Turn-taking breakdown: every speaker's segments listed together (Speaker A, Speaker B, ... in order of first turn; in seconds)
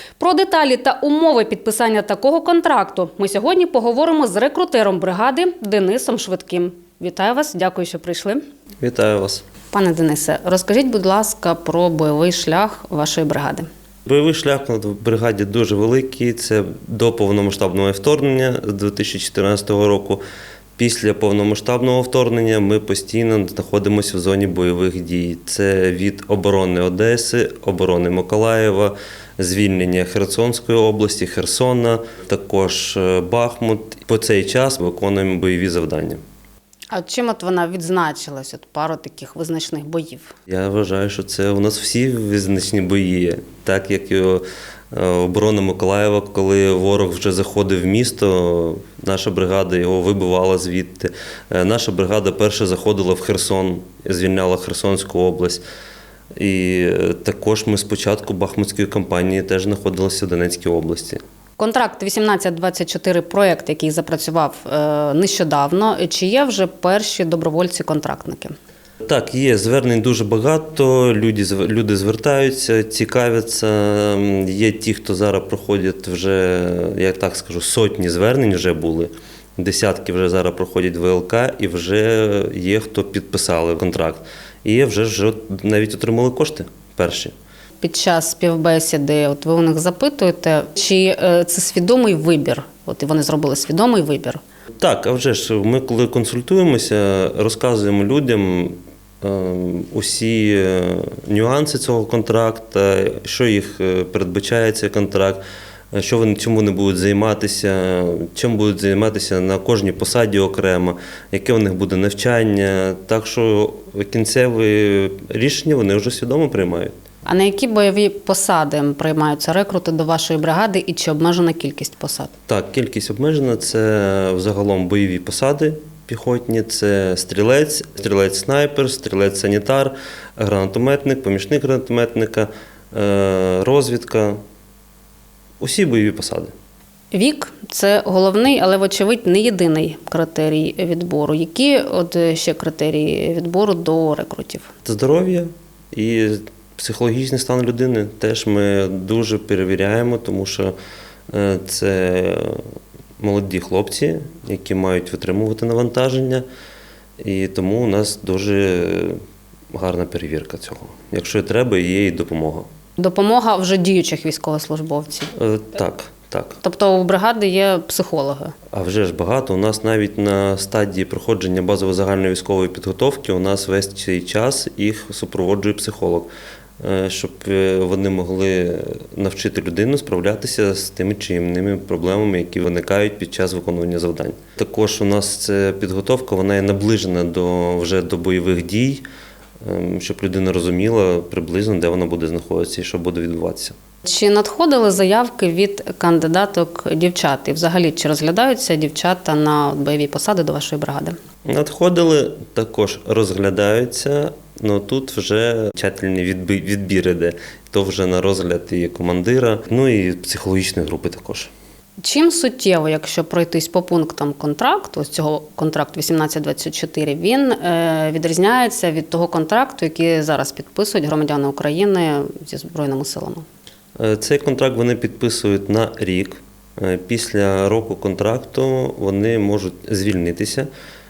Speaker A: 0.2-8.4, 9.7-13.7, 36.9-40.3, 61.6-68.5, 87.8-94.4, 117.3-122.3, 137.1-144.7, 163.0-165.3, 166.6-168.5, 194.0-201.2, 212.0-223.5
Speaker B: 8.8-9.4, 14.1-20.2, 20.8-36.2, 40.5-55.6, 56.4-61.2, 69.1-87.3, 94.8-117.0, 122.5-134.4, 135.6-136.5, 144.8-150.8, 151.3-152.7, 153.2-156.5, 157.2-159.2, 159.7-162.7, 165.3-166.6, 168.7-189.0, 189.6-193.8, 201.4-211.5, 224.0-230.7